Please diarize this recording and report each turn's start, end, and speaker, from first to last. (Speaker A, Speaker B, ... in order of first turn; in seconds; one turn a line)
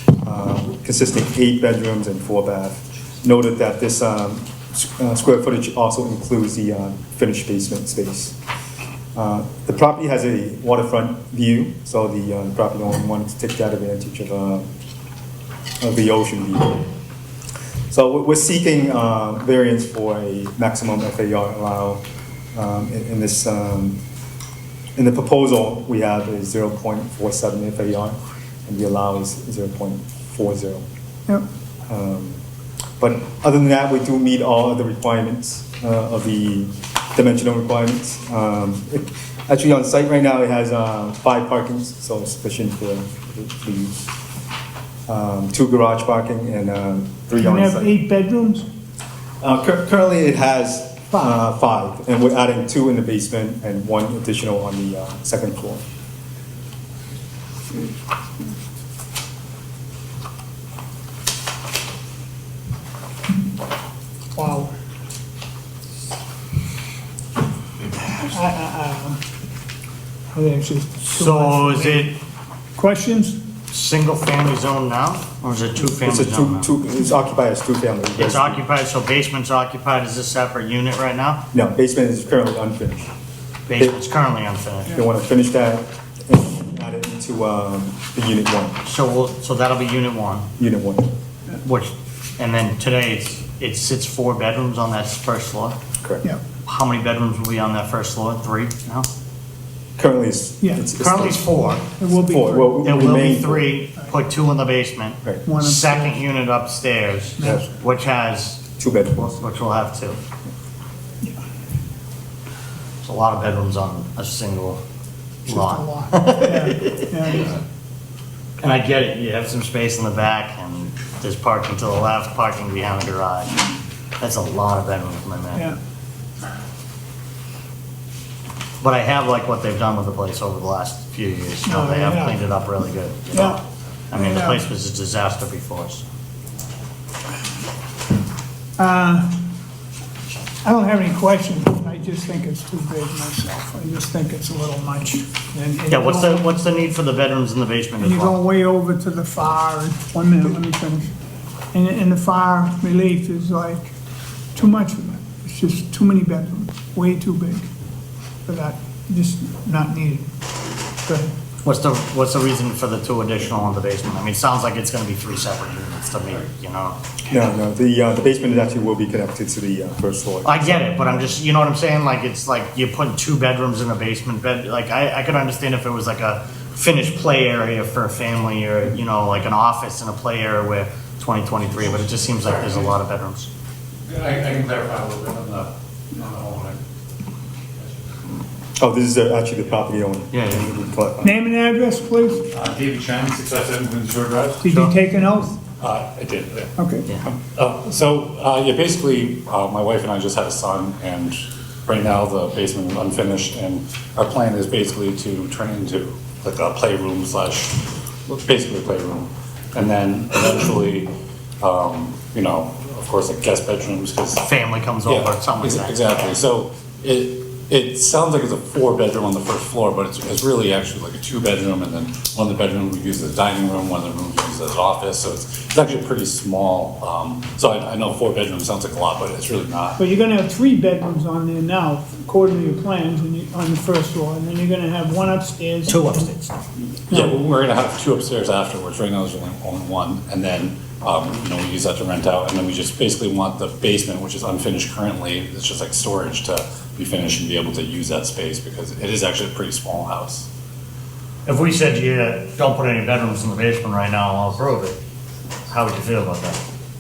Speaker A: 0.2-8.4
Speaker A: 9.2-14.7
Speaker A: 15.8-16.9
Speaker A: 17.9-22.0
Speaker A: 22.5-24.0
Speaker A: 25.0-30.8
Speaker A: 31.9-32.4
Speaker A: 33.0-44.0
Speaker A: 45.1-47.9
Speaker B: 47.4-48.7
Speaker A: 49.4-55.8
Speaker B: 64.3-64.7
Speaker B: 68.0-69.2
Speaker B: 70.3-72.1
Speaker C: 71.1-72.2
Speaker B: 72.8-73.4
Speaker C: 73.7-76.7
Speaker A: 76.0-78.6
Speaker C: 78.2-81.5
Speaker A: 81.5-83.1
Speaker C: 83.7-85.0
Speaker A: 84.9-88.8
Speaker C: 88.8-90.5
Speaker A: 90.6-91.1
Speaker C: 91.6-95.8
Speaker C: 96.7-99.1
Speaker A: 100.0-101.5
Speaker B: 100.6-100.9
Speaker C: 101.0-101.9
Speaker B: 102.0-102.8
Speaker A: 102.1-103.7
Speaker C: 102.8-108.6
Speaker B: 105.5-106.2
Speaker B: 107.4-107.7
Speaker A: 107.4-107.7
Speaker A: 108.8-109.4
Speaker C: 109.3-110.2
Speaker C: 113.0-114.8
Speaker B: 115.5-117.5
Speaker C: 115.5-117.5
Speaker C: 118.6-123.7
Speaker C: 124.2-125.7
Speaker C: 128.8-136.1
Speaker B: 131.7-132.4
Speaker B: 133.3-133.6
Speaker B: 134.1-134.6
Speaker B: 138.8-139.4
Speaker B: 140.6-146.4
Speaker C: 145.9-148.4
Speaker B: 148.0-151.1
Speaker B: 151.7-153.9
Speaker B: 154.6-157.7
Speaker B: 158.5-160.3
Speaker B: 161.1-161.3
Speaker C: 161.6-167.0
Speaker A: 167.3-171.0
Speaker C: 170.4-183.5
Speaker D: 182.4-182.9
Speaker D: 184.1-186.8
Speaker A: 188.8-191.3
Speaker C: 190.3-190.7
Speaker B: 191.2-192.5
Speaker D: 192.5-194.7
Speaker B: 194.6-195.6
Speaker D: 195.8-196.7
Speaker B: 196.8-197.0
Speaker D: 197.2-230.0
Speaker C: 214.4-216.0
Speaker B: 230.0-236.3
Speaker C: 235.9-236.5
Speaker D: 237.1-250.5
Speaker C: 251.5-255.0
Speaker C: 255.7-256.6